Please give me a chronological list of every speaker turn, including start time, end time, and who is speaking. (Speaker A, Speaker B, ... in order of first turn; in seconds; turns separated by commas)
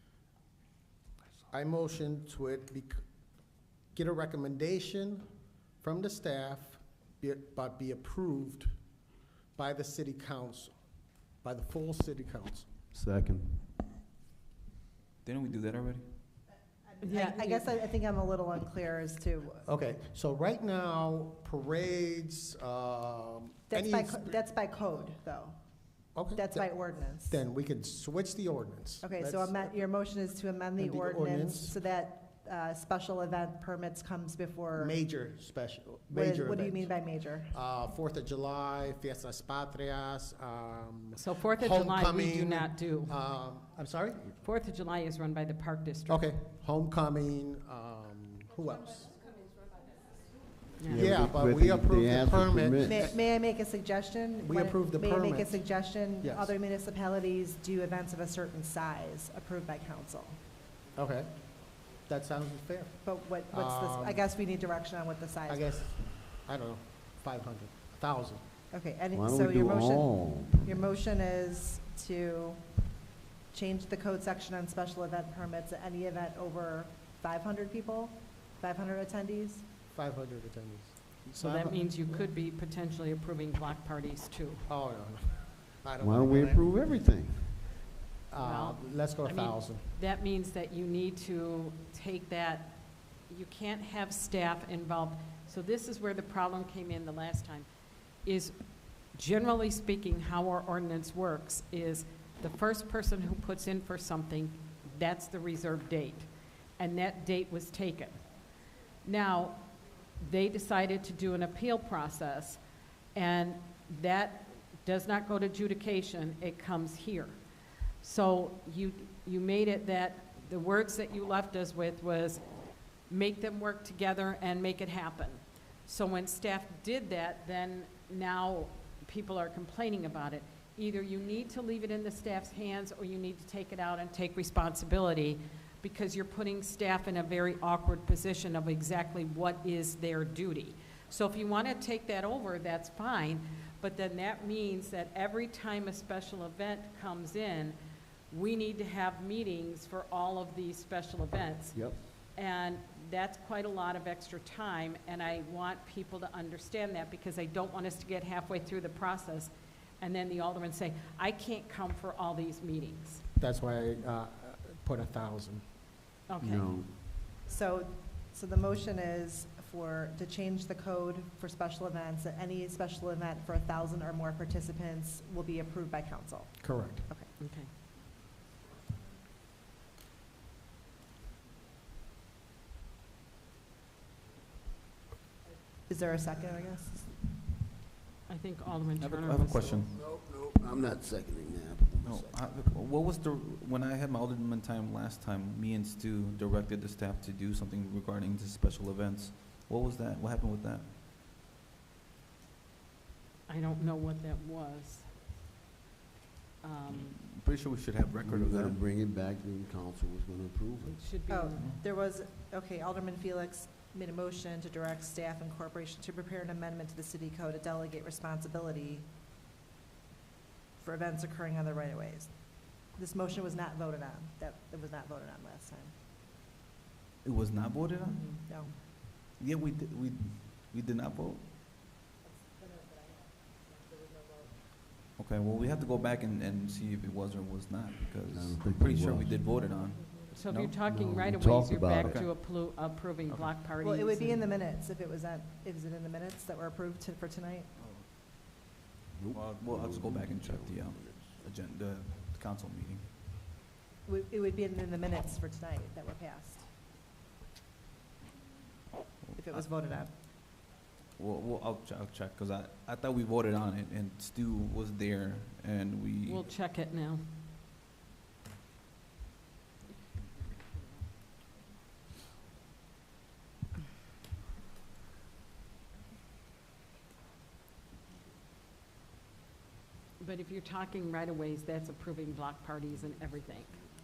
Speaker A: 1.5-3.0, Speaker A: 3.9-5.2, Speaker A: 5.8-8.8, Speaker A: 9.6-10.8, Speaker A: 11.4-12.7, Speaker B: 12.9-13.7, Speaker C: 15.2-16.1, Speaker D: 16.9-19.6, Speaker E: 17.0-17.7, Speaker A: 19.6-24.4, Speaker D: 23.7-25.5, Speaker A: 26.1-26.7, Speaker D: 26.4-27.4, Speaker A: 27.3-29.9, Speaker D: 29.0-34.9, Speaker A: 30.8-31.7, Speaker A: 34.8-37.0, Speaker D: 36.1-37.5, Speaker A: 37.5-44.3, Speaker E: 41.1-43.1, Speaker E: 44.4-46.2, Speaker A: 46.1-49.1, Speaker E: 50.8-51.1, Speaker A: 50.9-53.2, Speaker B: 50.9-53.1, Speaker D: 52.8-60.4, Speaker A: 54.4-55.6, Speaker A: 56.2-56.5, Speaker A: 61.0-61.3, Speaker A: 62.1-64.2, Speaker D: 63.0-65.7, Speaker A: 65.5-68.4, Speaker D: 68.7-72.7, Speaker B: 69.1-70.8, Speaker D: 73.5-79.6, Speaker A: 79.9-81.8, Speaker E: 81.4-84.7, Speaker A: 84.7-86.9, Speaker B: 86.0-87.5, Speaker A: 88.3-89.9, Speaker E: 88.4-97.7, Speaker E: 98.2-98.5, Speaker E: 99.1-106.3, Speaker E: 106.8-108.2, Speaker E: 109.0-112.6, Speaker E: 113.1-117.3, Speaker E: 118.0-122.4, Speaker E: 123.1-147.8, Speaker E: 148.3-163.2, Speaker B: 151.7-152.0, Speaker A: 163.4-165.6, Speaker E: 166.3-166.8, Speaker B: 166.4-166.9, Speaker D: 167.4-177.3, Speaker A: 176.6-177.1, Speaker E: 177.4-177.7, Speaker D: 185.9-187.2, Speaker E: 188.3-189.8, Speaker C: 189.0-189.9, Speaker B: 189.9-192.4, Speaker C: 192.0-200.9, Speaker E: 203.5-205.1, Speaker E: 206.6-207.1, Speaker C: 206.9-208.8, Speaker B: 208.2-211.0, Speaker E: 210.8-211.7, Speaker D: 211.3-219.1, Speaker D: 220.8-222.3, Speaker D: 222.9-225.9, Speaker C: 227.2-231.5, Speaker D: 228.0-228.7, Speaker D: 232.6-233.0, Speaker D: 233.9-234.2, Speaker C: 235.2-240.8, Speaker B: 238.3-239.4, Speaker E: 240.3-244.5, Speaker B: 240.8-242.2, Speaker C: 243.3-243.6, Speaker D: 243.8-247.7, Speaker C: 247.8-248.1, Speaker B: 249.1-251.4, Speaker C: 249.3-253.1, Speaker D: 254.1-256.6, Speaker C: 259.2-259.6, Speaker D: 259.4-260.1, Speaker C: 261.2-266.5, Speaker E: 266.2-267.2, Speaker E: 280.2-283.8